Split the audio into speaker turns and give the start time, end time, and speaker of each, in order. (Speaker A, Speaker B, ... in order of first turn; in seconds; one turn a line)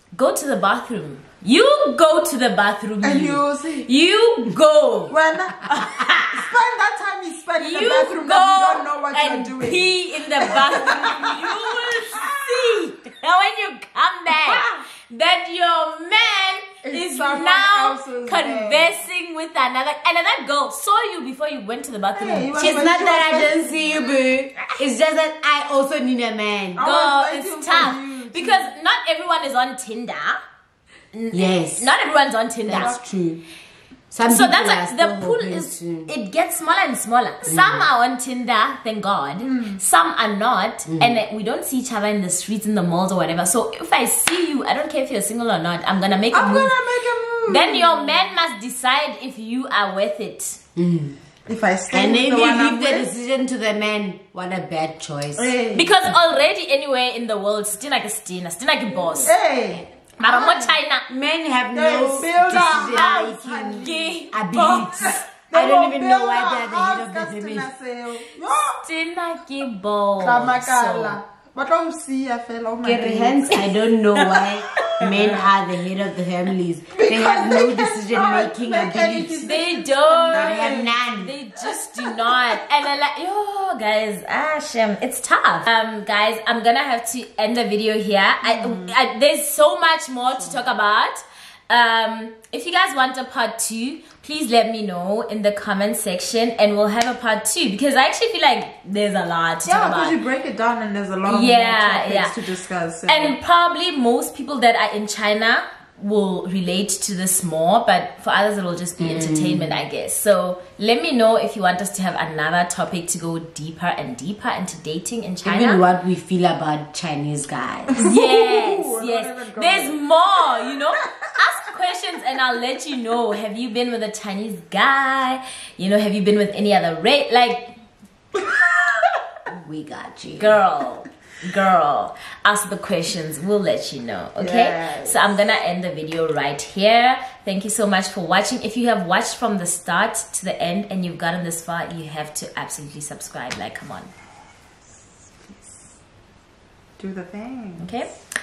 Speaker A: 0.1-5.1
Speaker B: 3.0-3.9
Speaker B: 5.1-12.8
Speaker A: 6.0-6.4
Speaker A: 7.6-23.0
Speaker B: 16.8-19.0
Speaker B: 22.2-23.8
Speaker C: 22.6-26.8
Speaker B: 26.8-28.7
Speaker A: 26.8-30.4
Speaker A: 31.1-33.0
Speaker C: 31.3-31.9
Speaker C: 32.7-33.4
Speaker B: 32.7-33.0
Speaker C: 34.1-36.1
Speaker A: 34.2-46.8
Speaker C: 37.5-37.9
Speaker B: 39.4-39.8
Speaker C: 40.9-41.2
Speaker B: 46.3-48.2
Speaker A: 47.5-50.6
Speaker C: 50.8-51.2
Speaker B: 51.5-53.1
Speaker C: 51.9-55.5
Speaker B: 55.4-56.1
Speaker A: 55.7-59.3
Speaker B: 59.2-60.8
Speaker A: 60.2-61.0
Speaker C: 61.1-67.7
Speaker B: 61.7-68.8
Speaker A: 62.5-63.3
Speaker A: 63.8-65.3
Speaker A: 68.8-71.2
Speaker B: 70.2-73.7
Speaker C: 72.8-79.6
Speaker B: 75.0-75.5
Speaker B: 76.9-81.0
Speaker A: 79.4-100.2
Speaker C: 80.3-81.3
Speaker B: 88.4-89.0
Speaker B: 90.3-90.6
Speaker B: 99.7-103.4
Speaker A: 101.2-102.3
Speaker A: 103.0-115.8
Speaker C: 109.0-109.8
Speaker C: 115.4-118.0
Speaker B: 117.9-120.0
Speaker A: 118.0-127.7
Speaker C: 129.5-130.6
Speaker A: 130.4-144.1
Speaker B: 134.4-135.3
Speaker B: 147.0-147.9
Speaker A: 147.8-148.1